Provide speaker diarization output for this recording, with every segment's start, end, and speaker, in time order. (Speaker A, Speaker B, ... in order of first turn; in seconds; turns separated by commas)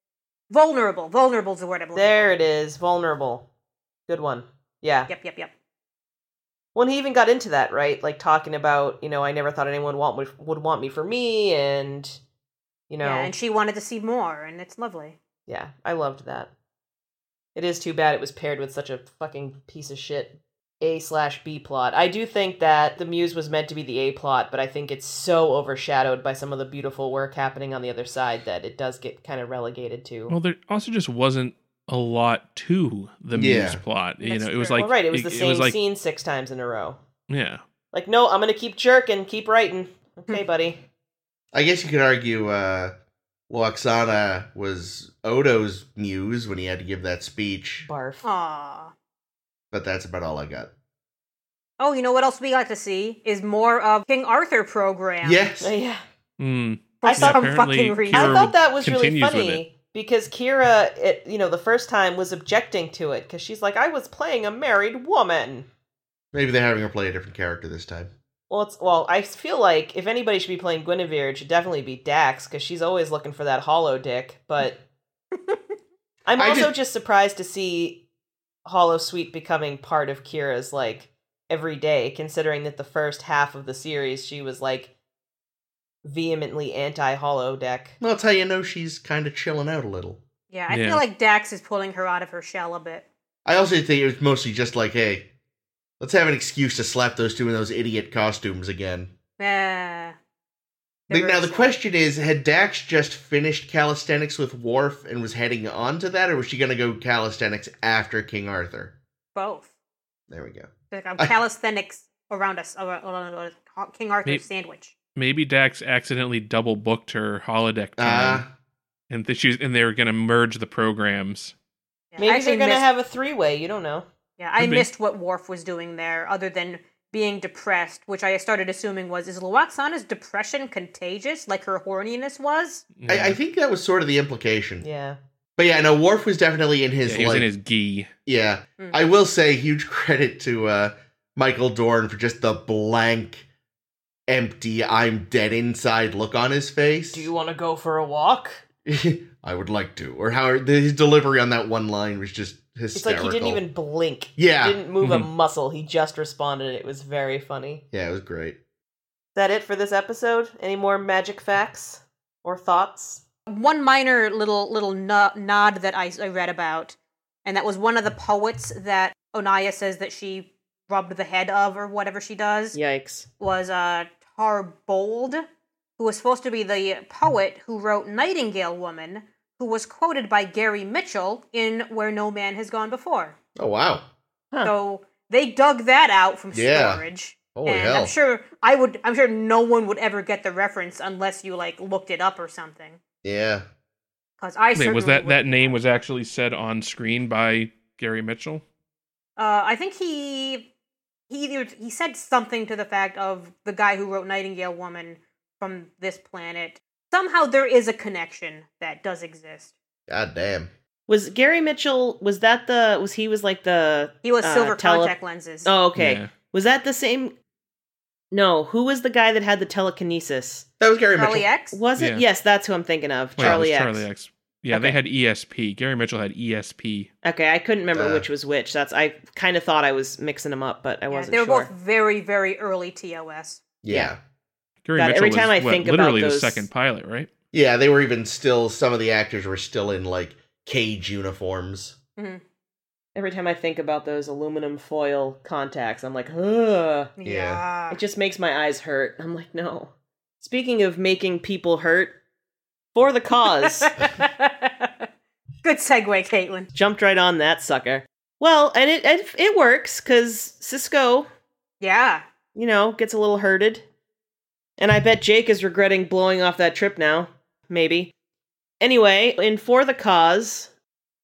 Speaker A: 0.5-2.3, Speaker B: 1.9-3.5, Speaker B: 4.1-5.1, Speaker A: 5.1-5.5, Speaker B: 6.7-12.2, Speaker B: 12.9-13.3, Speaker A: 13.0-15.2, Speaker B: 15.5-16.5, Speaker B: 17.5-30.3, Speaker C: 30.3-35.8, Speaker D: 33.3-33.8, Speaker A: 34.2-34.9, Speaker B: 34.8-37.0, Speaker C: 37.3-37.6, Speaker B: 37.9-40.8, Speaker D: 41.5-42.9, Speaker D: 43.5-47.9, Speaker B: 47.9-48.2, Speaker A: 48.2-48.9, Speaker D: 49.7-50.7, Speaker A: 51.8-55.4, Speaker D: 55.2-55.7, Speaker B: 55.6-56.0, Speaker C: 56.4-59.6, Speaker A: 57.0-58.5, Speaker B: 57.0-57.4, Speaker B: 58.1-65.7, Speaker D: 66.3-68.1, Speaker B: 68.5-74.8, Speaker B: 76.2-78.0, Speaker D: 76.4-76.7, Speaker B: 78.7-84.9, Speaker B: 86.0-88.0, Speaker D: 88.0-90.2, Speaker A: 90.5-93.0, Speaker C: 90.7-91.0, Speaker D: 93.5-95.3, Speaker D: 96.0-99.1, Speaker A: 99.4-100.2, Speaker A: 101.1-101.7, Speaker D: 101.1-108.9, Speaker A: 109.3-109.7, Speaker D: 110.3-111.3, Speaker A: 110.9-114.9, Speaker C: 115.2-118.4, Speaker D: 118.0-118.5, Speaker C: 119.1-121.5, Speaker A: 122.1-122.8, Speaker B: 122.2-124.0, Speaker A: 124.4-132.9, Speaker C: 124.6-124.9, Speaker C: 132.9-133.4, Speaker D: 133.1-134.8, Speaker B: 134.8-135.2, Speaker D: 135.6-137.5, Speaker C: 137.1-138.1, Speaker D: 138.2-143.4, Speaker D: 144.3-147.3, Speaker B: 147.1-148.6, Speaker D: 148.8-153.6, Speaker B: 152.9-157.8, Speaker D: 154.4-154.8, Speaker C: 155.0-155.3, Speaker D: 157.9-158.6, Speaker B: 159.3-163.2, Speaker A: 163.5-172.8, Speaker B: 172.7-173.3, Speaker A: 173.4-175.4, Speaker A: 176.0-183.3, Speaker D: 183.6-184.0, Speaker A: 184.6-193.0, Speaker D: 186.5-187.0, Speaker D: 187.5-188.1, Speaker D: 193.2-193.6, Speaker A: 194.4-195.8, Speaker C: 194.7-198.6, Speaker A: 199.4-200.7, Speaker A: 201.3-209.7, Speaker D: 210.1-210.7, Speaker B: 211.1-215.1, Speaker A: 214.2-215.7, Speaker B: 215.6-217.3, Speaker C: 215.9-216.3, Speaker B: 218.3-220.7, Speaker D: 220.8-221.4, Speaker A: 221.2-221.8, Speaker B: 221.7-224.1, Speaker C: 222.0-222.2, Speaker C: 223.4-227.1, Speaker D: 223.4-223.6, Speaker B: 224.7-224.9, Speaker B: 227.2-231.7, Speaker D: 227.9-228.2, Speaker A: 231.1-233.6, Speaker D: 233.8-234.2, Speaker C: 234.8-237.3, Speaker B: 234.9-236.7, Speaker D: 237.5-241.9, Speaker A: 242.2-242.4, Speaker B: 243.1-247.1, Speaker A: 247.2-248.0, Speaker D: 247.2-247.6, Speaker B: 247.9-252.2, Speaker B: 252.9-253.9, Speaker A: 253.6-255.1, Speaker A: 255.6-256.7, Speaker B: 256.7-261.3, Speaker A: 261.8-262.2, Speaker B: 262.5-263.8, Speaker B: 264.8-268.1, Speaker B: 268.8-270.7